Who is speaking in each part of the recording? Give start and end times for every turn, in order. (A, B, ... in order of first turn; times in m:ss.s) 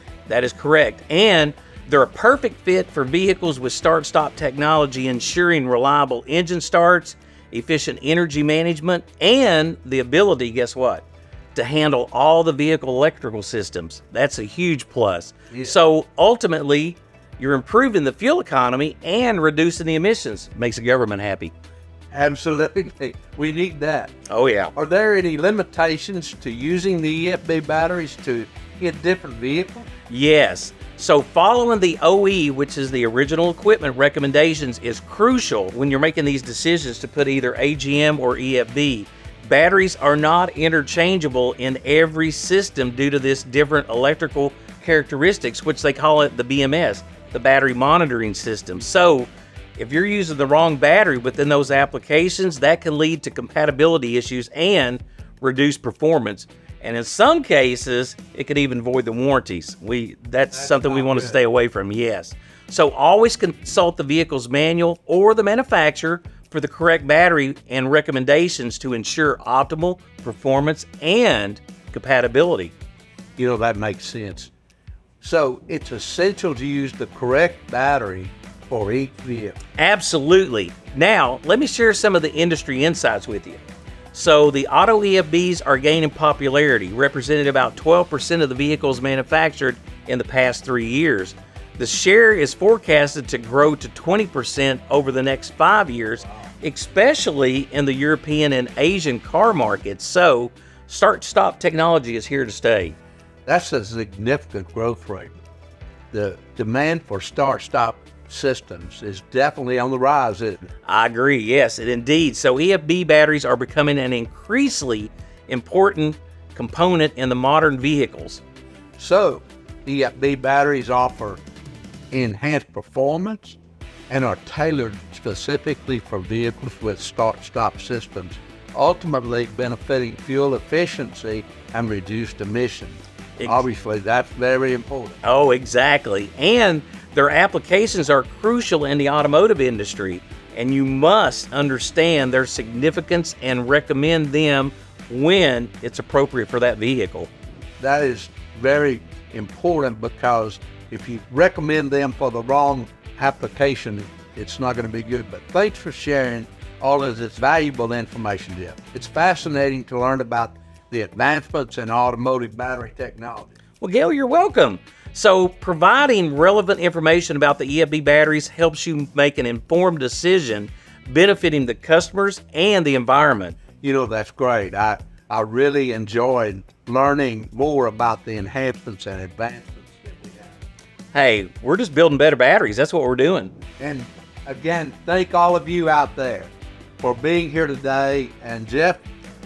0:00.3-0:21.5 A
0:22.1-0:24.1 B
0:24.3-0:24.7 A
0:24.8-0:29.9 B
0:30.1-1:12.8 A
1:00.5-1:01.4 B
1:13.4-1:14.5 B
1:15.2-1:19.6 B
1:19.8-1:23.6 A
1:24.1-1:43.0 A
1:43.5-1:45.4 B
1:46.1-1:50.7 B
1:50.9-1:58.4 A
1:59.0-2:01.4 B
2:02.1-2:03.6 B
2:04.1-2:15.2 B
2:13.4-2:13.6 A
2:15.2-2:27.3 A
2:27.8-2:43.5 B
2:43.8-2:53.6 A
2:53.8-3:00.6 B
3:01.1-3:03.5 A
3:03.8-3:09.0 B